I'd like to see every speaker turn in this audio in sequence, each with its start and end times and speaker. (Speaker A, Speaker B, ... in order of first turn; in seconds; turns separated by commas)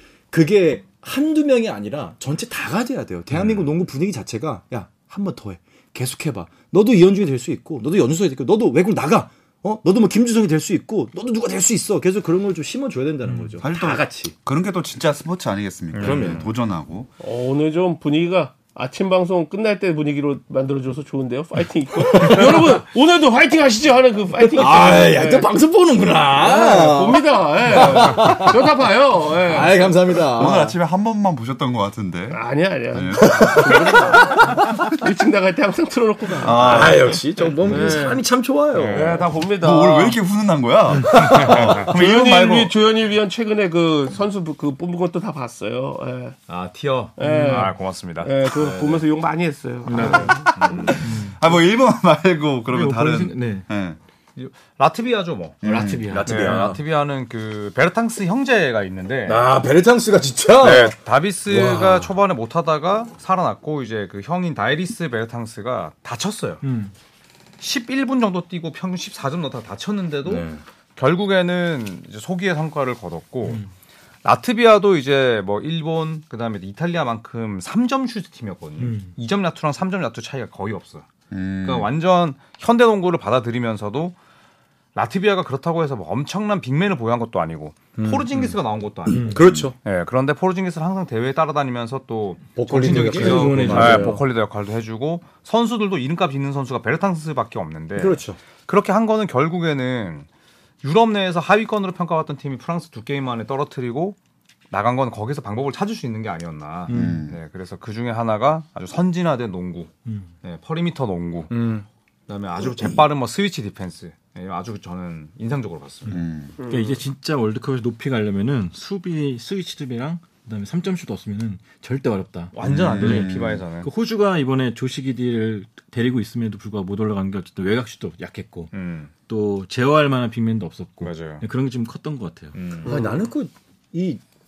Speaker A: 0.3-14.3, Speaker B: 13.2-13.6, Speaker C: 13.6-17.1, Speaker D: 15.9-16.4, Speaker A: 15.9-16.5, Speaker E: 17.2-25.5, Speaker A: 22.0-22.8, Speaker A: 24.5-28.6, Speaker E: 26.4-29.9, Speaker A: 29.4-30.8, Speaker C: 30.2-34.0, Speaker E: 32.3-38.2, Speaker A: 33.4-34.2, Speaker C: 36.4-37.8, Speaker A: 36.5-39.2, Speaker D: 38.7-39.2, Speaker E: 38.9-40.2, Speaker C: 39.5-42.7, Speaker D: 41.1-41.8, Speaker E: 41.3-46.4, Speaker D: 46.5-49.0, Speaker E: 47.2-50.9, Speaker B: 47.2-47.7, Speaker D: 49.9-51.0, Speaker C: 50.9-54.0, Speaker B: 51.0-51.4, Speaker B: 52.7-53.7, Speaker D: 54.4-55.6, Speaker C: 55.6-56.1, Speaker B: 55.6-56.8, Speaker A: 56.0-56.8, Speaker D: 56.2-59.4, Speaker A: 59.2-62.1, Speaker D: 60.6-66.6, Speaker B: 66.6-66.9, Speaker D: 67.6-73.6, Speaker A: 70.2-70.6, Speaker D: 74.2-81.1, Speaker B: 78.8-79.1, Speaker C: 81.3-81.9, Speaker D: 81.6-84.2, Speaker D: 84.9-100.3, Speaker A: 88.0-88.5, Speaker A: 89.1-89.7, Speaker A: 92.6-94.2, Speaker B: 92.7-94.2, Speaker A: 98.0-98.4, Speaker D: 100.8-104.2, Speaker D: 104.7-109.9, Speaker B: 106.9-107.2, Speaker C: 106.9-107.4, Speaker D: 110.4-116.2, Speaker B: 116.1-128.7, Speaker C: 116.1-116.5, Speaker E: 116.6-117.0, Speaker D: 122.5-123.9, Speaker C: 122.6-123.6, Speaker D: 128.7-129.1, Speaker B: 129.3-132.6, Speaker D: 131.0-131.4, Speaker D: 132.5-132.9, Speaker A: 132.8-134.2, Speaker E: 132.8-133.1